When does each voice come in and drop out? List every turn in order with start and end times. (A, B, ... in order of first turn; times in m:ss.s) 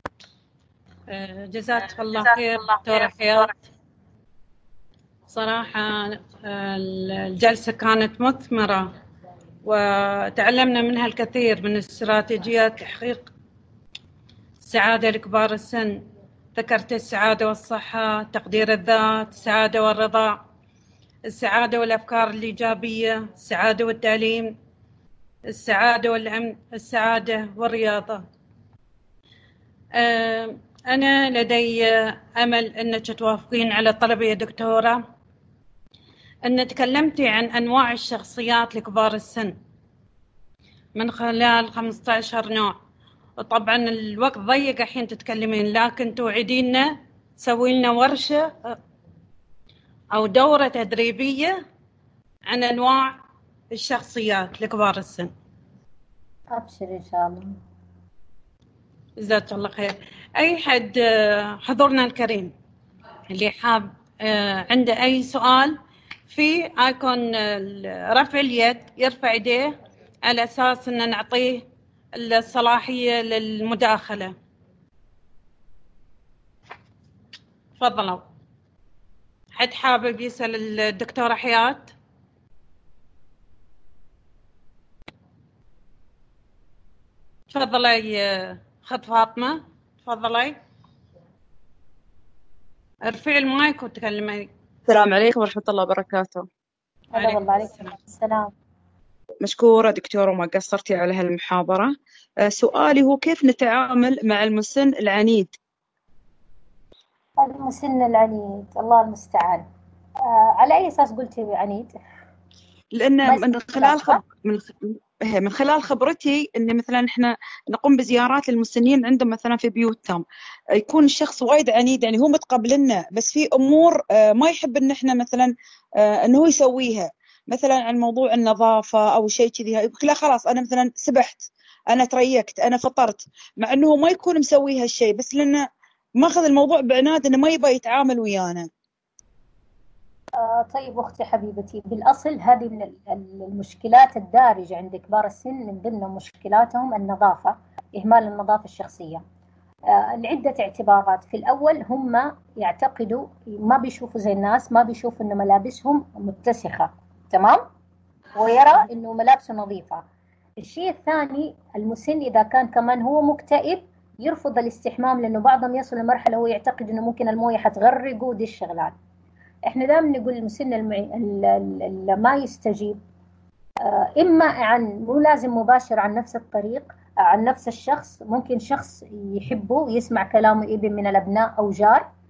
0:01.1-0:03.5 A
0:05.3-0:08.9 A
0:09.6-0:13.3 A
0:14.6-0:16.0 A
0:16.5-0:20.4 A
0:21.2-0:24.6 A
0:25.5-0:28.2 A
0:29.9-0:35.0 A
0:36.4-0:39.5 A
0:40.9-0:42.8 A
0:43.4-0:48.8 A
0:50.1-0:51.6 A
0:52.5-0:53.1 A
0:53.7-0:55.3 A
0:56.5-0:57.6 B
0:59.2-1:02.5 A
1:03.3-1:14.3 A
1:17.8-1:18.2 A
1:19.5-1:21.9 A
1:27.5-1:30.6 A
1:33.0-1:34.5 A
1:34.9-1:36.5 C
1:37.1-1:38.5 B
1:37.2-1:37.9 A
1:39.4-1:41.9 C
1:42.4-1:45.5 C
1:47.4-1:49.6 B
1:50.2-1:51.9 B
1:52.9-2:00.2 C
1:53.2-1:54.2 B
2:00.8-2:15.6 C
2:16.2-2:18.7 C
2:20.4-2:29.2 B
2:29.9-2:37.6 B
2:38.4-2:40.0 B
2:40.6-2:48.9 B
2:49.6-2:53.0 B
2:53.8-3:02.0 B